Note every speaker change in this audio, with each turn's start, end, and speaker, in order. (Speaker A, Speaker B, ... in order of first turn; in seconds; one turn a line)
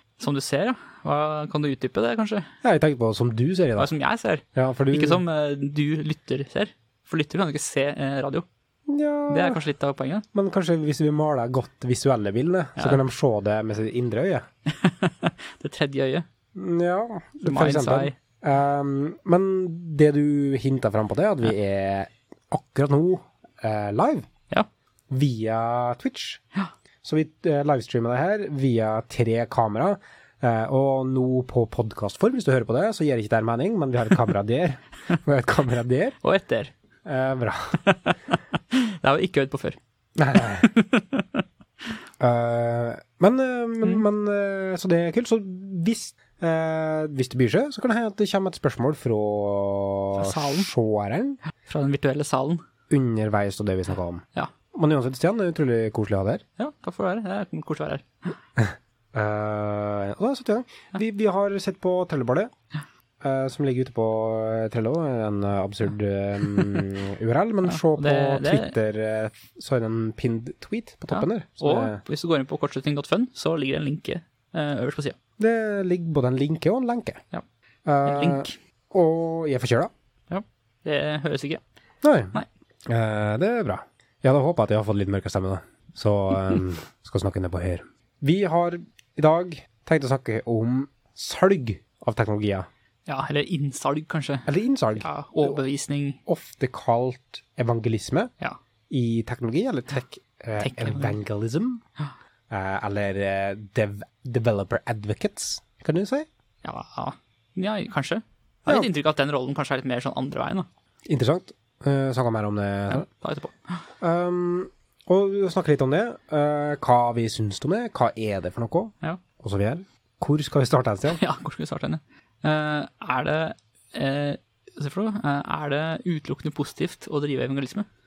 Speaker A: 0.2-2.5
Speaker B: 2.6-3.9
Speaker A: 3.8-8.5
Speaker B: 4.5-5.2
Speaker B: 8.9-9.6
Speaker A: 9.3-10.2
Speaker B: 10.3-14.4
Speaker A: 12.8-13.0
Speaker A: 14.7-16.2
Speaker B: 16.5-24.3
Speaker A: 17.4-18.1
Speaker B: 25.1-26.4
Speaker B: 27.0-36.2
Speaker A: 36.2-36.7
Speaker B: 37.0-37.8
Speaker A: 37.8-39.8
Speaker B: 40.2-40.7
Speaker A: 40.3-41.4
Speaker B: 42.2-51.4
Speaker A: 50.1-50.7
Speaker A: 51.6-52.6
Speaker B: 52.9-56.4
Speaker A: 56.6-58.3
Speaker B: 58.6-62.5
Speaker B: 63.2-72.0
Speaker A: 67.6-68.7
Speaker A: 71.1-75.2
Speaker B: 75.4-77.2
Speaker B: 77.9-79.9
Speaker A: 78.0-78.5
Speaker A: 80.3-81.6
Speaker B: 82.0-92.7
Speaker A: 93.1-96.2
Speaker B: 94.5-95.6
Speaker B: 96.2-98.3
Speaker B: 98.9-101.8
Speaker A: 100.6-101.2
Speaker B: 102.5-106.3
Speaker A: 106.6-110.7
Speaker B: 111.0-113.0
Speaker A: 112.9-113.8
Speaker B: 114.0-121.2
Speaker A: 121.1-127.9